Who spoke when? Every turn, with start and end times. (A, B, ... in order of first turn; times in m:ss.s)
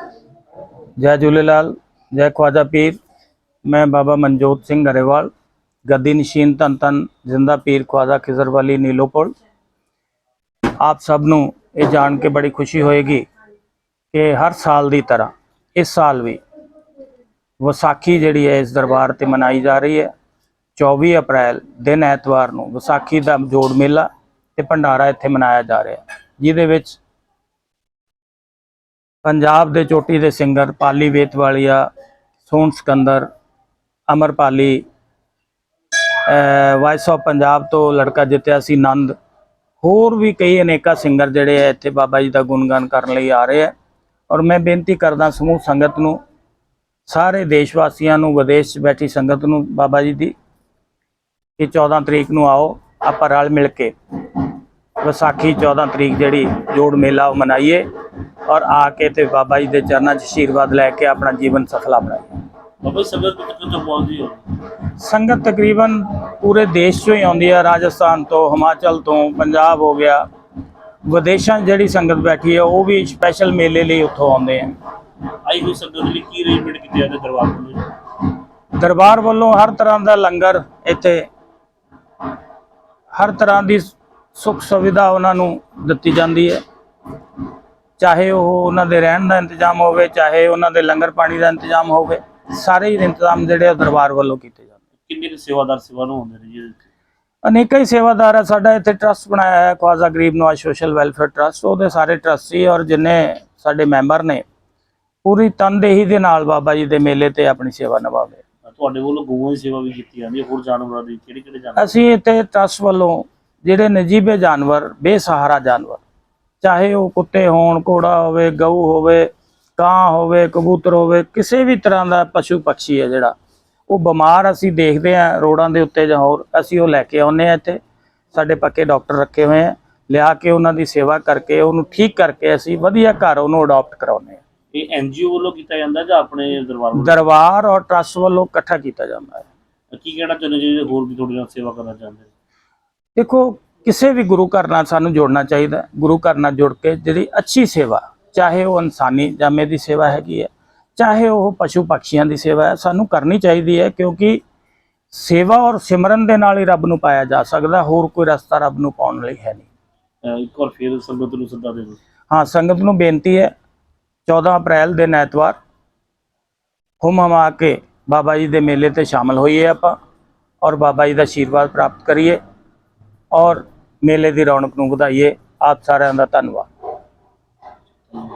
0:01.0-0:03.0 A
0:03.6-0:05.3 A
0:05.9-0:09.4 A
0:10.8-0:13.3 A
0:14.1-0:16.4 A
0:17.6-0:20.1 A
0:20.8-0:27.0 A
0:29.2-0:31.9 A
0:32.5-0:33.3 A
0:34.1-0:34.8 A
0:36.2-0:39.1 A
0:39.8-0:43.7 A
0:44.3-0:46.2 A
0:47.1-0:50.3 A
0:51.6-0:54.4 A
0:55.0-0:57.8 A
0:58.5-1:02.3 A
1:02.8-1:04.4 B
1:04.8-1:10.2 A
1:11.0-1:14.8 A
1:15.4-1:17.9 B
1:18.8-1:21.3 A
1:23.1-1:26.6 A
1:28.0-1:34.7 A
1:35.0-1:36.8 B
1:37.4-1:44.4 A
1:45.2-1:48.4 A
1:48.6-1:51.9 B
1:51.8-1:56.0 A
1:56.6-2:03.4 A
2:03.9-2:07.8 A
2:08.3-2:14.4 A
2:14.7-2:17.2 B
2:16.9-2:19.5 A
2:19.9-2:22.3 B
2:23.2-2:34.4 A
2:35.1-2:39.7 A
2:40.2-2:42.0 B
2:42.3-2:43.5 A
2:44.3-2:45.6 A
2:47.0-2:50.0 A
2:50.6-2:52.4 A
2:53.3-2:56.7 A